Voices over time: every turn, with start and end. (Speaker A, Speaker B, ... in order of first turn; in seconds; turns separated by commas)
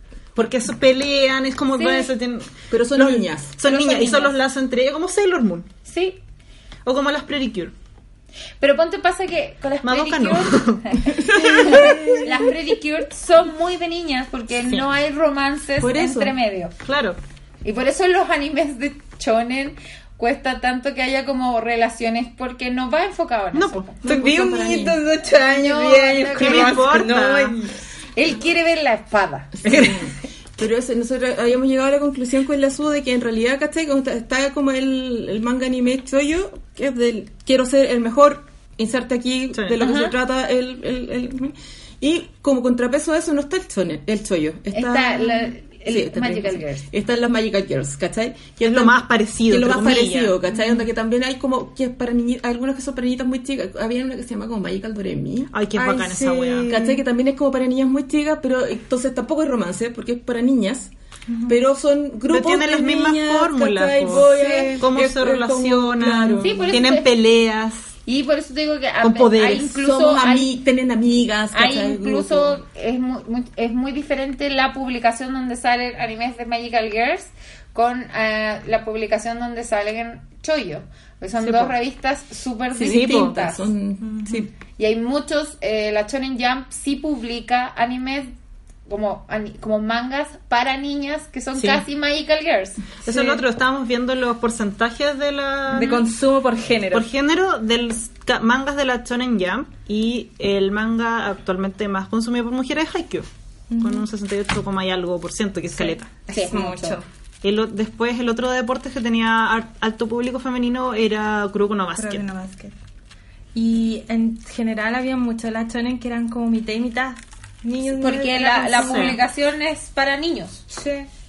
Speaker A: 0.3-5.7, Speaker B: 1.8-2.1, Speaker C: 2.7-3.5, Speaker B: 3.6-4.3, Speaker B: 5.8-6.2, Speaker A: 6.8-7.7, Speaker B: 8.6-16.7, Speaker A: 9.8-10.8, Speaker C: 11.1-12.6, Speaker C: 15.8-16.4, Speaker A: 16.8-17.2, Speaker B: 17.6-24.0, Speaker A: 23.5-23.9, Speaker C: 24.0-25.0, Speaker D: 24.0-27.7, Speaker B: 25.4-27.0, Speaker A: 26.4-27.6, Speaker B: 28.1-29.9, Speaker C: 29.6-55.5, Speaker A: 29.6-30.0, Speaker A: 39.5-39.8, Speaker B: 39.8-40.1, Speaker B: 44.7-46.9, Speaker A: 48.6-50.4, Speaker D: 50.5-50.8, Speaker A: 55.5-56.7, Speaker D: 55.8-57.0, Speaker C: 56.7-60.9, Speaker D: 61.3-61.5, Speaker C: 61.5-66.8, Speaker A: 62.3-67.9, Speaker B: 66.4-67.1, Speaker B: 68.0-70.5, Speaker A: 69.0-69.7, Speaker C: 69.7-72.6, Speaker B: 71.5-83.7, Speaker A: 81.4-81.7, Speaker C: 82.7-84.5, Speaker A: 82.8-83.4, Speaker D: 84.0-84.4, Speaker B: 84.8-88.3, Speaker B: 88.9-92.8, Speaker A: 91.5-91.8, Speaker A: 93.0-96.0, Speaker D: 93.1-93.3, Speaker D: 95.7-97.1, Speaker B: 95.8-96.0, Speaker A: 96.9-103.3, Speaker D: 103.7-104.0, Speaker A: 103.8-106.1, Speaker D: 105.8-107.0, Speaker B: 106.3-107.0, Speaker A: 107.4-112.2, Speaker D: 112.0-112.7, Speaker D: 113.5-119.2, Speaker B: 118.0-120.6, Speaker A: 118.7-119.2, Speaker D: 120.7-121.1